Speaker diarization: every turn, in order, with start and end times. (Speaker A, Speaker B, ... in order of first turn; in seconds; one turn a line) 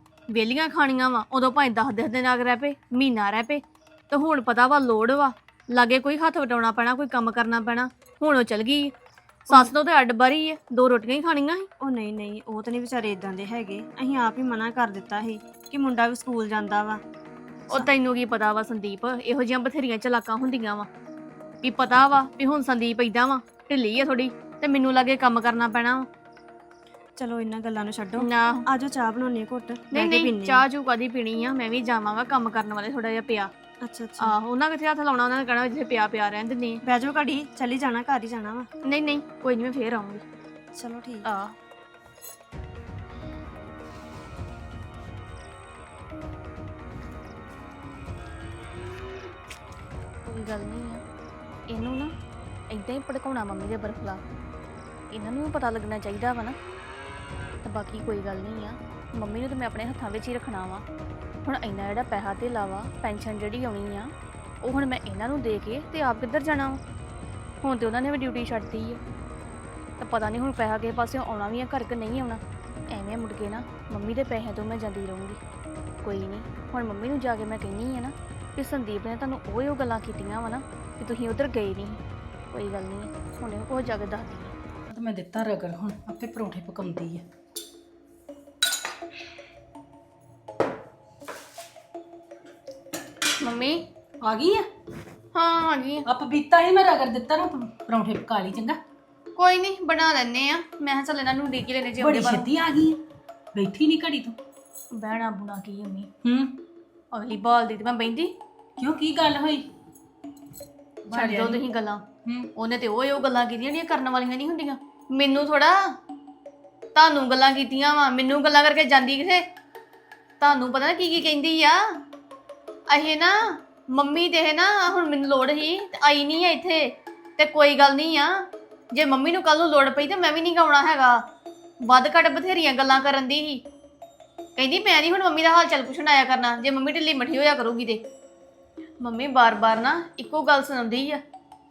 Speaker A: 0.3-8.9
Speaker A: 9.5-11.7
Speaker B: 11.8-17.0
Speaker A: 17.7-20.9
Speaker A: 21.6-26.1
Speaker B: 27.2-30.6
Speaker A: 28.2-28.6
Speaker A: 29.9-33.5
Speaker B: 33.8-34.4
Speaker A: 34.2-36.8
Speaker B: 36.9-38.7
Speaker A: 38.9-40.2
Speaker B: 40.8-41.3
Speaker A: 41.3-41.5
Speaker A: 50.2-51.0
Speaker A: 51.7-52.1
Speaker A: 52.7-54.2
Speaker A: 55.1-56.6
Speaker A: 57.6-60.9
Speaker A: 61.5-66.8
Speaker A: 67.6-69.0
Speaker A: 70.0-75.4
Speaker A: 76.0-82.0
Speaker A: 82.5-84.5
Speaker C: 84.9-87.2
Speaker A: 93.4-93.8
Speaker C: 94.2-94.7
Speaker A: 95.3-96.1
Speaker C: 96.1-98.8
Speaker A: 99.4-102.5
Speaker C: 102.0-103.0
Speaker C: 103.5-104.4
Speaker A: 104.9-106.1
Speaker C: 106.2-106.6
Speaker A: 107.1-108.3
Speaker C: 108.8-109.7
Speaker C: 111.1-111.6
Speaker A: 111.1-112.0
Speaker A: 112.6-116.0
Speaker A: 117.0-119.5
Speaker A: 120.4-122.0
Speaker A: 122.9-131.2
Speaker A: 131.8-133.6
Speaker A: 134.6-138.1
Speaker A: 139.0-141.2